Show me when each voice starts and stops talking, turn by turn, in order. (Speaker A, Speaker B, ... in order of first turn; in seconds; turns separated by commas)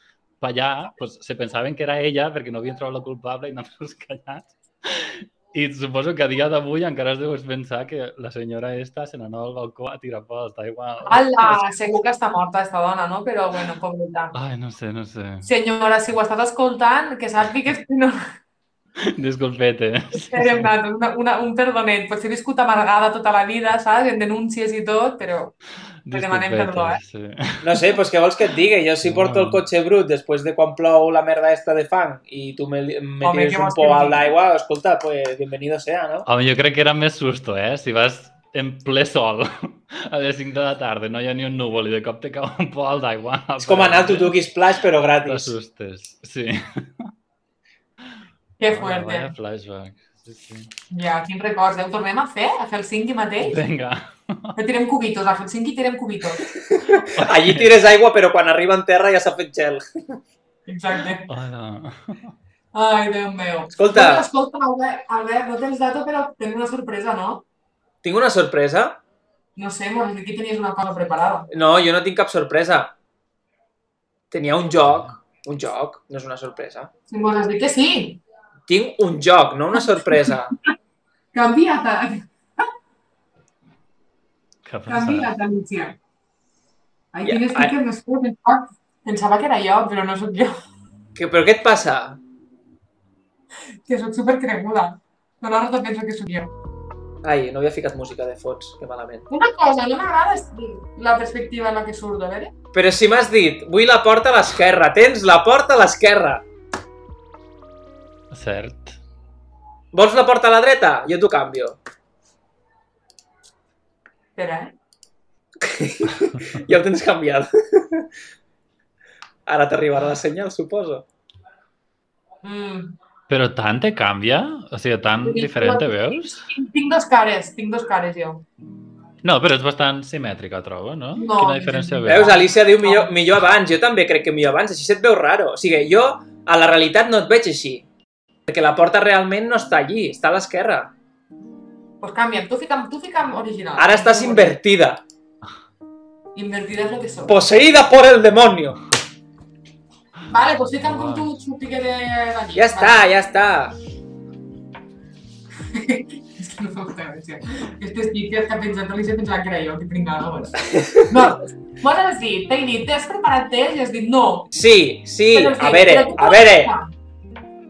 Speaker A: 0.4-11.7, Speaker B: 11.0-14.3, Speaker A: 14.3-15.5, Speaker B: 15.4-18.2, Speaker A: 19.0-20.7, Speaker B: 20.3-25.5, Speaker A: 26.1-27.8, Speaker B: 26.1-27.0, Speaker C: 27.6-36.3, Speaker A: 29.0-29.6, Speaker B: 33.2-34.2, Speaker A: 36.2-44.3, Speaker C: 43.6-45.5, Speaker A: 45.2-47.1, Speaker B: 48.6-49.3, Speaker A: 48.7-50.7, Speaker B: 50.9-53.6, Speaker A: 53.4-54.5, Speaker B: 54.5-56.4, Speaker C: 56.5-60.2, Speaker A: 57.0-57.8, Speaker B: 60.7-61.3, Speaker A: 61.3-62.3, Speaker B: 62.7-67.4, Speaker C: 63.7-64.3, Speaker C: 68.0-69.0, Speaker B: 69.5-71.5, Speaker C: 71.5-72.9, Speaker C: 74.3-76.9, Speaker B: 77.1-78.2, Speaker C: 78.7-80.5, Speaker B: 81.3-82.3, Speaker A: 84.6-85.3, Speaker B: 84.9-86.0, Speaker B: 87.1-90.6, Speaker C: 87.2-87.7, Speaker C: 91.1-92.2, Speaker B: 93.8-96.5, Speaker C: 97.2-99.3, Speaker B: 99.3-102.5, Speaker C: 102.7-106.4, Speaker A: 108.3-109.0, Speaker C: 109.9-111.8, Speaker B: 114.3-114.7, Speaker C: 115.6-118.1, Speaker C: 119.5-121.0, Speaker B: 122.4-123.0, Speaker A: 123.3-126.5, Speaker B: 125.2-128.4, Speaker A: 129.2-132.4, Speaker B: 131.2-133.1, Speaker C: 132.1-137.8, Speaker C: 138.5-140.9, Speaker B: 142.0-144.6, Speaker C: 143.8-145.0, Speaker B: 146.3-147.4, Speaker C: 147.3-148.8, Speaker B: 150.3-153.0, Speaker A: 150.8-151.3, Speaker C: 152.5-153.8, Speaker B: 155.7-164.5, Speaker C: 160.7-161.3, Speaker C: 164.5-166.7, Speaker B: 165.3-166.9